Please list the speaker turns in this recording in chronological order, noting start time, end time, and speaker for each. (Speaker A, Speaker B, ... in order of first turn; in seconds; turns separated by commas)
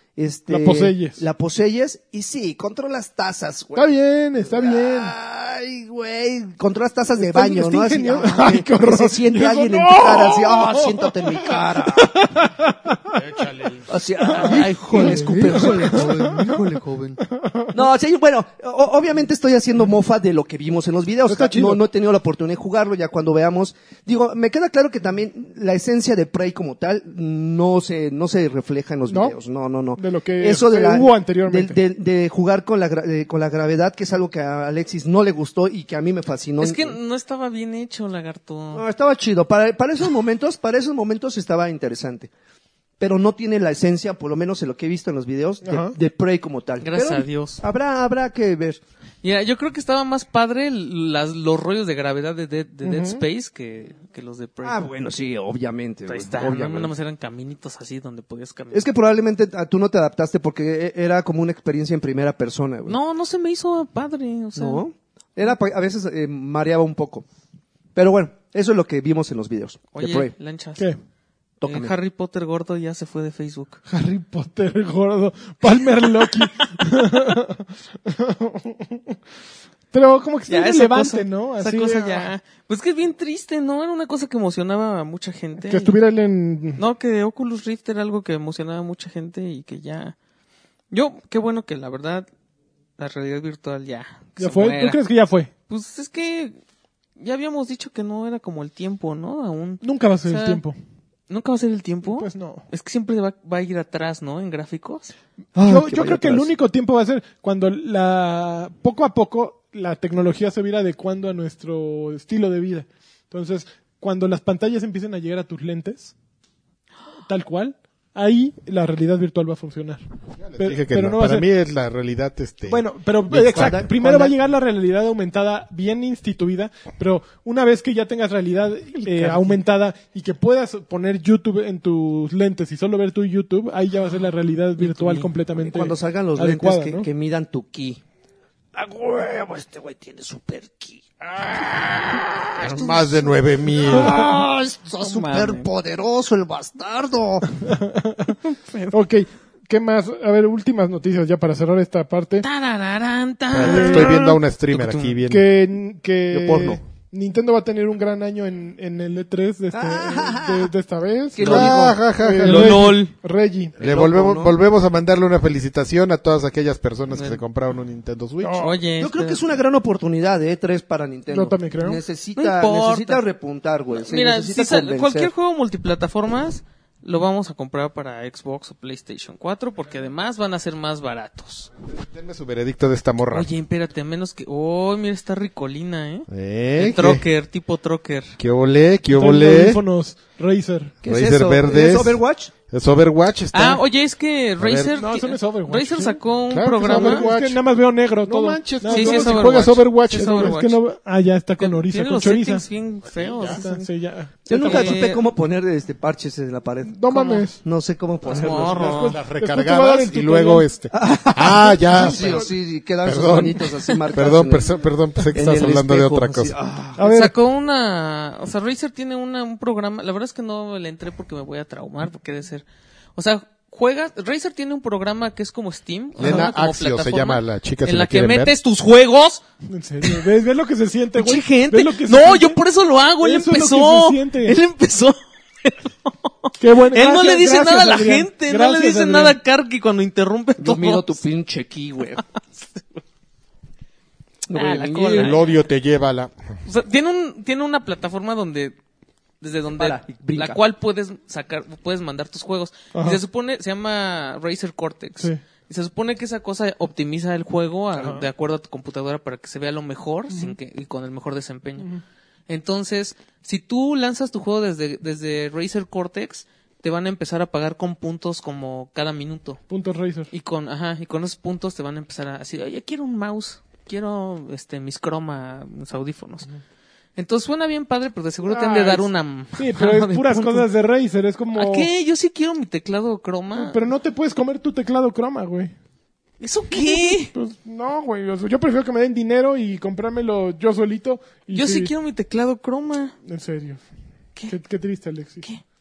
Speaker A: 0.2-12.3, Speaker B: 0.5-1.2, Speaker B: 3.8-5.1, Speaker B: 7.2-13.2, Speaker C: 13.1-13.9, Speaker A: 13.9-17.2, Speaker B: 14.2-17.8, Speaker D: 15.1-16.3, Speaker A: 17.7-37.0, Speaker B: 21.3-21.8, Speaker B: 29.1-29.4, Speaker B: 30.0-31.8, Speaker D: 36.6-38.8, Speaker A: 38.7-42.3, Speaker A: 43.0-48.8, Speaker B: 45.6-46.0, Speaker D: 46.8-47.6, Speaker D: 49.2-54.9, Speaker B: 52.8-53.2, Speaker A: 54.6-56.9, Speaker D: 56.1-58.9, Speaker A: 58.7-63.0, Speaker D: 62.9-64.8, Speaker A: 64.6-67.3, Speaker A: 68.0-70.3, Speaker D: 70.0-70.9, Speaker A: 71.6-71.9, Speaker D: 71.6-73.8, Speaker B: 73.9-79.2, Speaker B: 79.9-82.3, Speaker D: 80.5-86.0, Speaker B: 85.6-86.8, Speaker D: 86.8-90.2, Speaker D: 90.9-92.3, Speaker D: 93.0-95.0, Speaker B: 94.4-95.5, Speaker D: 95.7-96.6, Speaker D: 97.2-100.6, Speaker B: 99.8-100.8, Speaker D: 101.3-105.1, Speaker B: 102.0-102.7, Speaker A: 105.6-106.5, Speaker B: 105.6-116.1, Speaker B: 117.3-120.0, Speaker C: 120.4-122.8, Speaker B: 120.6-121.5, Speaker B: 122.7-137.1, Speaker A: 123.3-124.3, Speaker C: 123.5-123.8, Speaker A: 129.0-129.6, Speaker D: 134.8-135.3, Speaker A: 135.5-138.0, Speaker A: 138.7-147.5, Speaker C: 142.6-144.2, Speaker D: 145.0-145.7, Speaker B: 147.7-148.4, Speaker D: 148.4-148.9, Speaker B: 148.9-152.5, Speaker D: 152.4-155.2, Speaker C: 153.5-155.4, Speaker B: 153.6-154.2, Speaker B: 155.3-163.7, Speaker A: 156.3-156.8, Speaker A: 159.7-160.7, Speaker A: 161.3-162.0, Speaker C: 161.4-163.0, Speaker D: 162.4-163.1, Speaker A: 163.8-164.6, Speaker C: 163.8-168.7, Speaker D: 167.1-167.4, Speaker B: 168.4-168.7, Speaker D: 168.5-169.4, Speaker A: 169.0-175.3, Speaker B: 171.3-172.0, Speaker D: 172.4-173.2, Speaker D: 173.9-181.7, Speaker C: 181.8-183.5, Speaker D: 183.3-188.4, Speaker C: 186.3-187.2, Speaker C: 188.4-189.8, Speaker B: 189.1-190.9, Speaker A: 191.0-192.5, Speaker C: 191.1-193.8, Speaker D: 193.5-197.2, Speaker C: 194.6-194.9, Speaker B: 194.9-196.2, Speaker C: 196.5-197.6, Speaker B: 196.8-202.7, Speaker C: 198.3-200.6, Speaker D: 198.9-200.8, Speaker D: 201.6-203.9, Speaker C: 203.1-203.6, Speaker B: 203.4-205.0, Speaker A: 204.5-209.1, Speaker D: 204.5-205.2, Speaker B: 206.8-207.6, Speaker D: 207.1-207.4, Speaker D: 208.3-209.2, Speaker B: 208.7-210.7, Speaker C: 208.9-212.5, Speaker A: 210.9-214.8, Speaker B: 211.9-212.5, Speaker C: 213.0-216.6, Speaker A: 215.3-217.0, Speaker B: 217.0-217.3, Speaker D: 217.0-222.7, Speaker D: 223.2-229.4, Speaker C: 226.2-228.5, Speaker B: 229.7-232.6, Speaker A: 231.2-231.9, Speaker D: 231.8-241.2, Speaker B: 233.2-234.6, Speaker B: 236.6-239.4, Speaker A: 240.6-242.2, Speaker A: 244.5-245.4, Speaker D: 244.5-245.4, Speaker C: 245.2-246.3, Speaker D: 246.7-248.8, Speaker D: 249.4-261.9, Speaker A: 249.8-250.6, Speaker B: 252.9-253.2, Speaker B: 258.0-258.3, Speaker B: 260.3-260.6, Speaker D: 262.5-269.6, Speaker B: 269.7-270.3, Speaker D: 270.3-276.5, Speaker D: 277.2-280.7, Speaker B: 278.4-281.9, Speaker D: 281.5-283.8, Speaker B: 283.6-285.7, Speaker D: 286.4-287.3, Speaker B: 286.8-291.9, Speaker D: 291.5-293.1, Speaker B: 293.3-293.8, Speaker B: 294.5-295.5